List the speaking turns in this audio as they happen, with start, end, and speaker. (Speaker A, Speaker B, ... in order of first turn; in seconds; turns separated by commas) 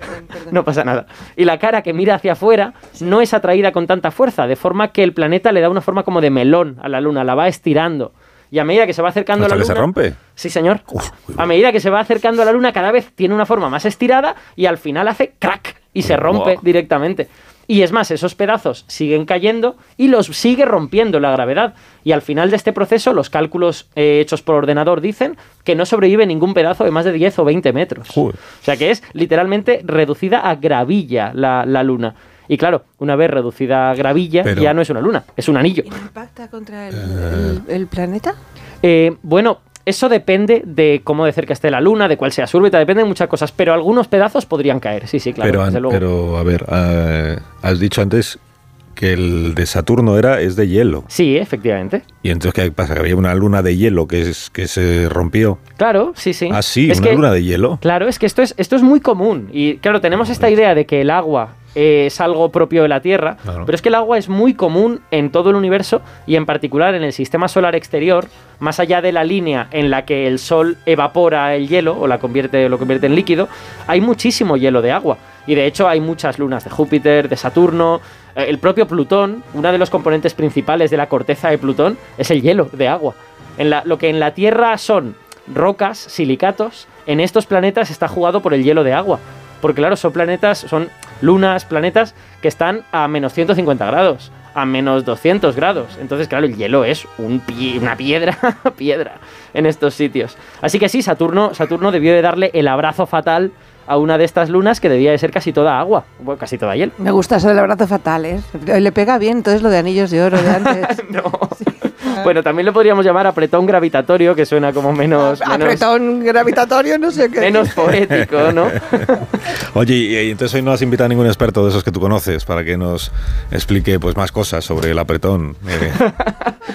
Speaker A: 0.1-0.5, Speaker B: 0.3-35.9, Speaker C: 9.4-10.2, Speaker C: 10.9-11.4, Speaker C: 16.0-16.6, Speaker C: 28.1-28.4, Speaker C: 34.4-34.8, Speaker A: 35.8-38.4, Speaker C: 36.9-37.6, Speaker B: 38.8-46.0, Speaker C: 45.4-48.4, Speaker C: 48.9-51.1, Speaker B: 51.1-52.0, Speaker C: 52.2-55.6, Speaker B: 55.8-57.2, Speaker C: 56.5-57.8, Speaker B: 57.8-106.9, Speaker C: 60.2-60.5, Speaker A: 107.0-111.0, Speaker B: 110.4-115.8, Speaker A: 111.6-112.3, Speaker A: 115.2-117.9, Speaker B: 117.4-119.1, Speaker C: 118.1-126.0, Speaker B: 125.8-126.5